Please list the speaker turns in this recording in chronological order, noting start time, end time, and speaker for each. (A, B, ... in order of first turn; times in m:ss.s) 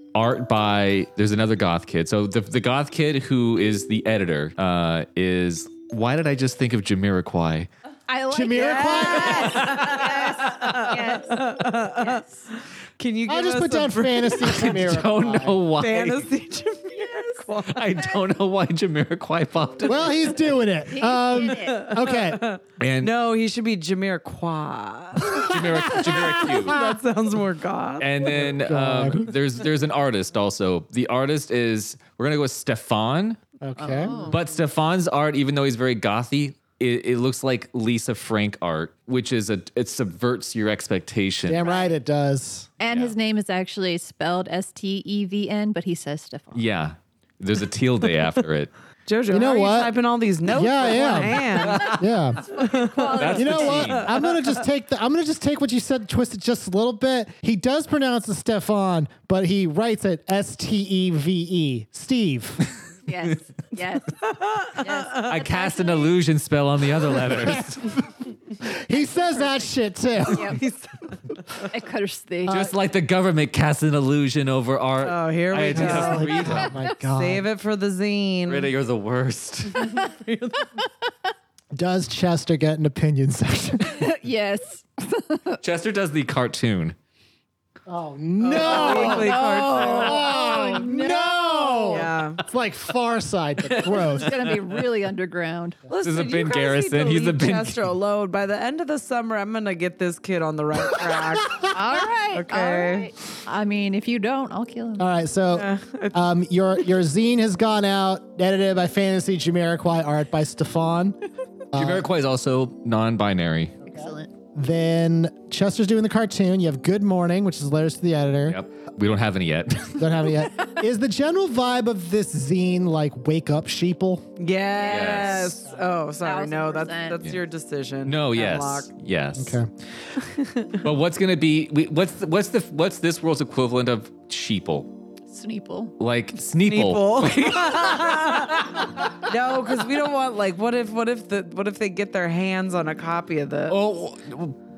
0:00.2-0:07.7 A
0:08.1-0:12.4 B
0:08.3-0:09.7 C
0:08.5-0:12.2 D
0:13.0-0:14.8 D
0:13.3-0:15.6 C
0:14.4-0:16.3 A
0:15.8-0:18.2 D
0:17.6-0:20.4 A
0:19.8-0:22.5 C
0:20.9-0:22.0 B
0:21.5-0:28.4 D
0:22.8-0:23.1 A
0:25.2-0:26.9 C
0:25.3-0:26.8 A
0:28.0-0:33.4 A
0:28.2-0:29.3 C
0:33.6-0:34.2 C
0:33.8-0:34.4 B
0:34.3-0:41.7 A
0:41.5-0:42.7 C
0:41.6-0:41.9 B
0:42.8-0:46.6 B
0:42.9-0:43.1 A
0:46.6-0:48.7 A
0:49.1-0:54.6 D
0:49.3-0:52.5 C
0:51.4-0:52.1 A
0:52.5-0:53.9 B
0:53.1-0:54.1 A
0:53.4-1:02.7 C
1:03.1-1:04.2 B
1:04.2-1:05.4 D
1:04.8-1:06.2 B
1:05.2-1:07.9 A
1:08.6-1:10.6 C
1:08.9-1:09.7 B
1:10.3-1:10.6 B
1:10.4-1:11.7 D
1:11.7-1:12.7 B
1:12.5-1:16.7 A
1:15.0-1:18.7 D
1:15.7-1:17.5 C
1:18.5-1:20.0 A
1:19.7-1:20.7 D
1:21.7-1:24.1 C
1:23.8-1:25.6 B
1:25.6-1:27.0 A
1:27.9-1:34.3 C
1:28.4-1:30.3 D
1:28.6-1:32.1 B
1:31.9-1:32.4 D
1:33.6-1:34.8 A
1:33.8-1:35.8 B
1:35.9-1:41.8 D
1:36.0-1:38.0 A
1:41.7-1:45.1 B
1:42.3-1:43.1 D
1:45.0-1:51.2 C
1:45.5-1:46.2 D
1:51.7-1:52.1 C
1:51.7-1:53.8 A
1:53.8-1:58.6 C
1:53.8-1:54.3 B
1:58.5-2:00.5 A
2:00.0-2:04.3 C
2:04.4-2:08.9 D
2:04.8-2:07.2 B
2:04.9-2:05.6 A
2:08.1-2:09.6 A
2:09.4-2:09.7 C
2:10.2-2:10.8 D
2:10.8-2:14.9 A
2:15.3-2:16.0 B
2:16.0-2:18.6 A
2:16.7-2:23.8 D
2:23.7-2:24.6 A